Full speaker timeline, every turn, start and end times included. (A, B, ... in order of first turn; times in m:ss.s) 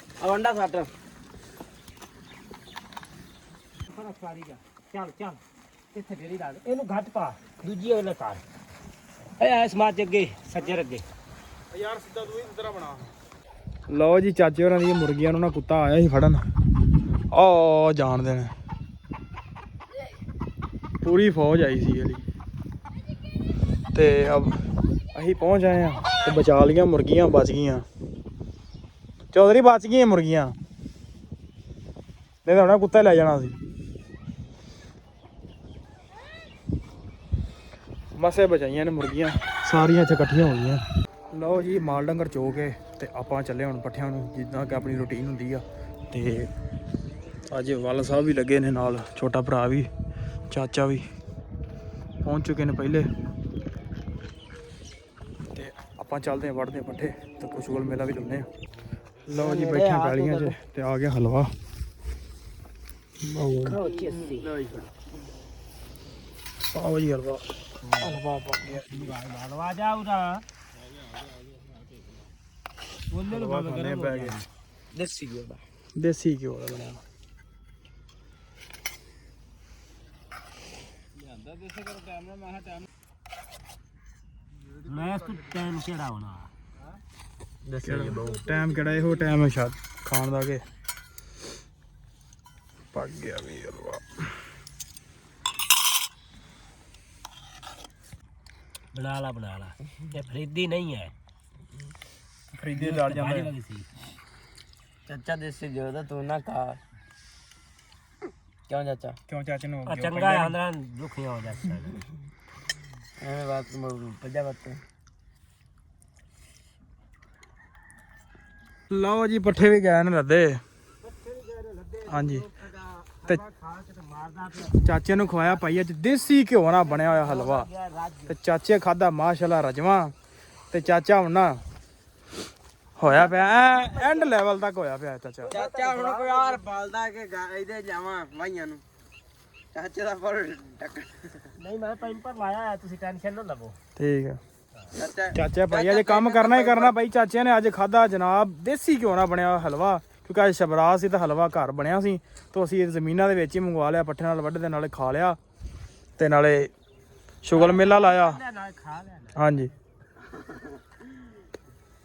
0:00.2-0:00.9 A
0:03.8-0:05.4 B
0:05.9-0:08.4 B
0:09.4-0:11.0 B
0:11.7-0:13.1 C
0:13.9-0:16.4 C
0:17.3-0:18.5 C
0:21.0-0:22.2 C
0:23.9-0:24.6 C
0:25.1-0:27.8 C
0:29.3-0:30.5 C
0:32.4-0:33.6 C
0:38.2-0:40.8 C
0:41.3-0:46.5 C
0:47.5-0:49.9 C
0:50.5-0:51.0 C
0:52.2-0:53.0 C
0:55.5-0:58.4 C
0:59.2-1:01.5 C
0:59.3-1:00.6 A
1:03.2-1:03.8 C
1:03.6-1:04.5 B
1:04.0-1:04.9 A
1:06.7-1:07.4 C
1:07.8-1:08.2 B
1:08.0-1:08.8 C
1:08.8-1:10.4 B
1:13.1-1:14.4 B
1:13.3-1:14.4 C
1:14.9-1:15.6 A
1:16.0-1:17.0 C
1:24.8-1:26.5 B
1:27.6-1:28.4 A
1:27.8-1:30.6 C
1:32.9-1:34.2 C
1:38.9-1:41.1 B
1:42.5-1:43.5 C
1:42.8-1:43.9 B
1:45.1-1:46.8 A
1:48.7-1:49.2 A
1:49.3-1:50.6 C
1:49.8-1:52.0 B
1:53.2-1:54.8 A
1:58.9-2:00.6 C
2:01.0-2:05.8 B
2:02.1-2:02.4 C
2:04.8-2:07.7 C
2:06.7-2:08.3 B
2:08.3-2:10.1 C
2:10.7-2:11.6 C
2:13.0-2:15.5 C
2:13.0-2:14.3 B
2:15.4-2:16.6 B
2:15.5-2:18.8 A
2:19.7-2:21.5 A
2:21.6-2:23.8 B
2:24.0-2:24.4 C
2:24.9-2:26.9 A
2:25.3-2:35.4 C
2:36.2-2:36.7 C
2:37.4-2:38.4 C
2:37.5-2:39.4 B
2:39.4-2:39.7 C